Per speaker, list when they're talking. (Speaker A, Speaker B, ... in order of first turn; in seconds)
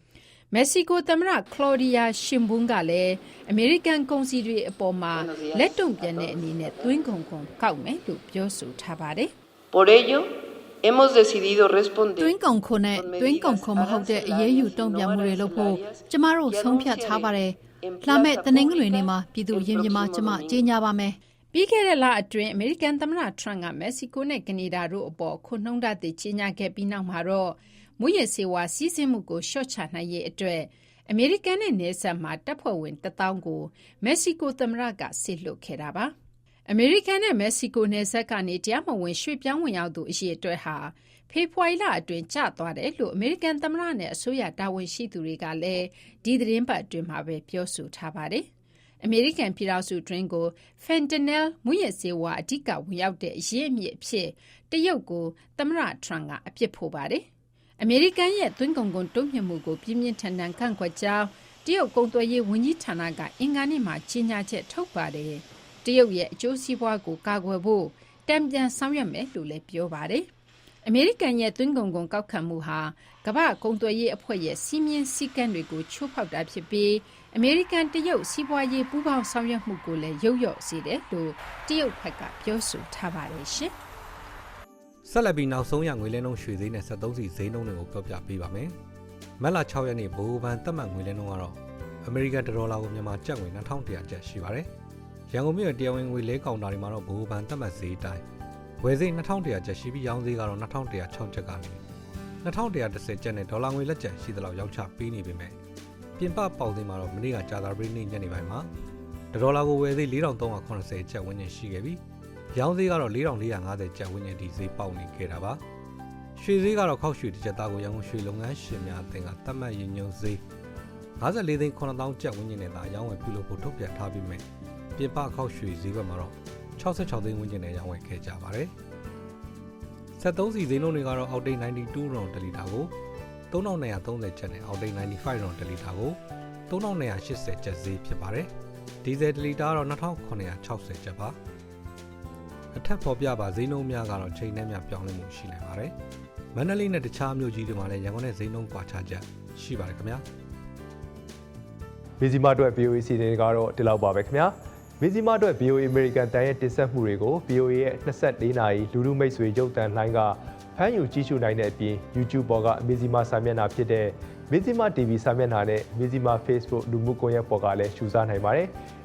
Speaker A: 0.5-9.3, 21.5-36.1, 36.7-48.5, 49.0-57.2, 57.8-70.3, 70.8-83.7
Speaker B: 5.1-6.9, 9.7-10.3, 10.8-12.4, 12.9-20.7
Speaker C: 12.2-21.1
Speaker D: 85.0-88.7, 89.4-94.7, 95.3-98.2, 98.8-101.8, 102.4-105.5, 106.2-108.7, 109.3-112.0, 112.5-115.6, 116.3-120.4, 121.2-124.4, 125.0-128.7, 130.2-132.9, 133.5-138.5, 139.0-141.3, 142.7-145.9, 146.5-150.2
Speaker E: 152.2-168.7